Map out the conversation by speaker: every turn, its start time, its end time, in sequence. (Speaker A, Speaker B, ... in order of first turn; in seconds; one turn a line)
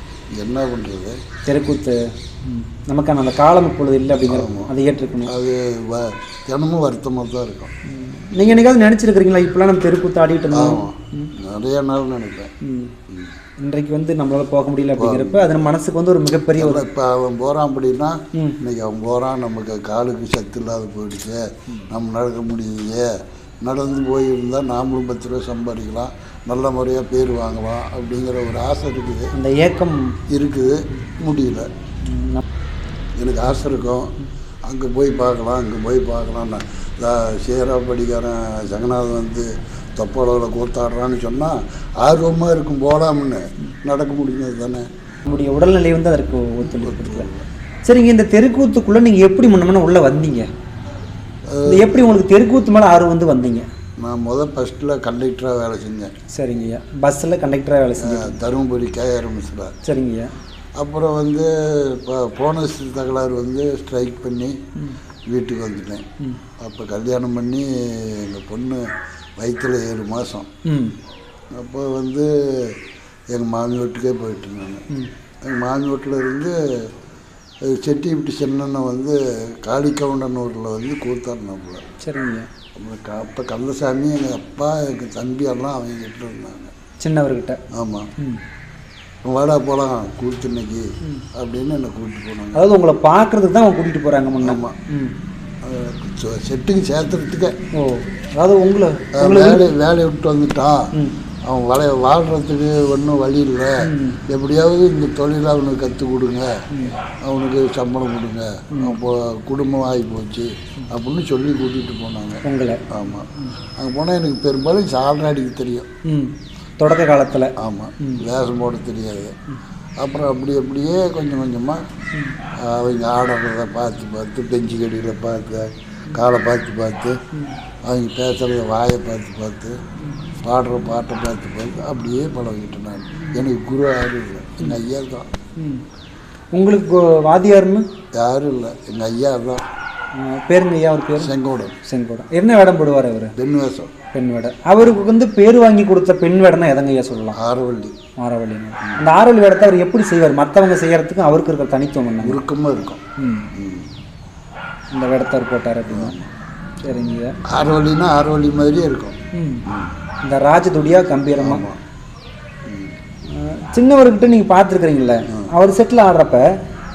Speaker A: 0.3-1.2
Speaker B: 1.4-5.3
Speaker A: 4.3-4.7
Speaker A: 5.2-7.7
Speaker B: 7.8-11.3
Speaker A: 10.5-12.5
Speaker B: 12.6-13.0
Speaker A: 13.1-13.3
Speaker B: 13.6-16.8
Speaker A: 15.0-15.6
Speaker A: 16.6-29.3
Speaker B: 29.3-30.2
Speaker A: 30.3-31.7
Speaker B: 32.0-32.4
Speaker A: 33.2-44.9
Speaker B: 45.2-47.3
Speaker A: 46.6-47.5
Speaker B: 47.9-50.5
Speaker A: 51.5-52.1
Speaker B: 51.6-53.7
Speaker A: 54.0-56.1
Speaker B: 56.3-58.3
Speaker A: 58.0-59.8
Speaker B: 59.8-60.3
Speaker A: 60.8-64.6
Speaker A: 65.3-66.0
Speaker A: 66.6-68.8
Speaker A: 69.4-70.5
Speaker B: 70.7-71.0
Speaker A: 71.5-72.8
Speaker A: 73.3-74.9
Speaker A: 75.4-76.9
Speaker A: 77.7-81.8
Speaker B: 82.0-82.5
Speaker A: 82.7-86.7
Speaker B: 87.0-87.6
Speaker A: 87.7-88.1
Speaker A: 89.2-92.6
Speaker B: 92.5-95.2
Speaker A: 94.4-94.8
Speaker A: 95.6-97.6
Speaker B: 97.7-99.7
Speaker A: 99.1-100.9
Speaker A: 101.4-106.6
Speaker B: 103.8-104.2
Speaker B: 106.7-107.0
Speaker A: 107.2-115.9
Speaker B: 112.4-113.5
Speaker B: 116.0-118.2
Speaker A: 117.6-119.3
Speaker A: 120.0-121.8
Speaker A: 122.5-127.2
Speaker A: 127.8-129.8
Speaker A: 130.4-135.3
Speaker B: 133.2-133.4
Speaker B: 135.6-135.8
Speaker B: 136.5-137.8
Speaker A: 138.1-139.6
Speaker B: 140.1-141.3
Speaker A: 141.2-141.8
Speaker B: 141.8-143.3
Speaker A: 143.3-143.9
Speaker B: 144.1-147.4
Speaker A: 147.3-147.9
Speaker B: 148.2-152.4
Speaker A: 152.2-153.0
Speaker B: 153.2-153.5
Speaker A: 153.5-153.9
Speaker B: 154.9-156.2
Speaker A: 155.9-156.3
Speaker B: 156.8-157.4
Speaker A: 157.4-159.9
Speaker B: 159.3-159.7
Speaker B: 160.2-161.6
Speaker A: 161.4-161.8
Speaker A: 162.7-162.9
Speaker B: 163.2-166.6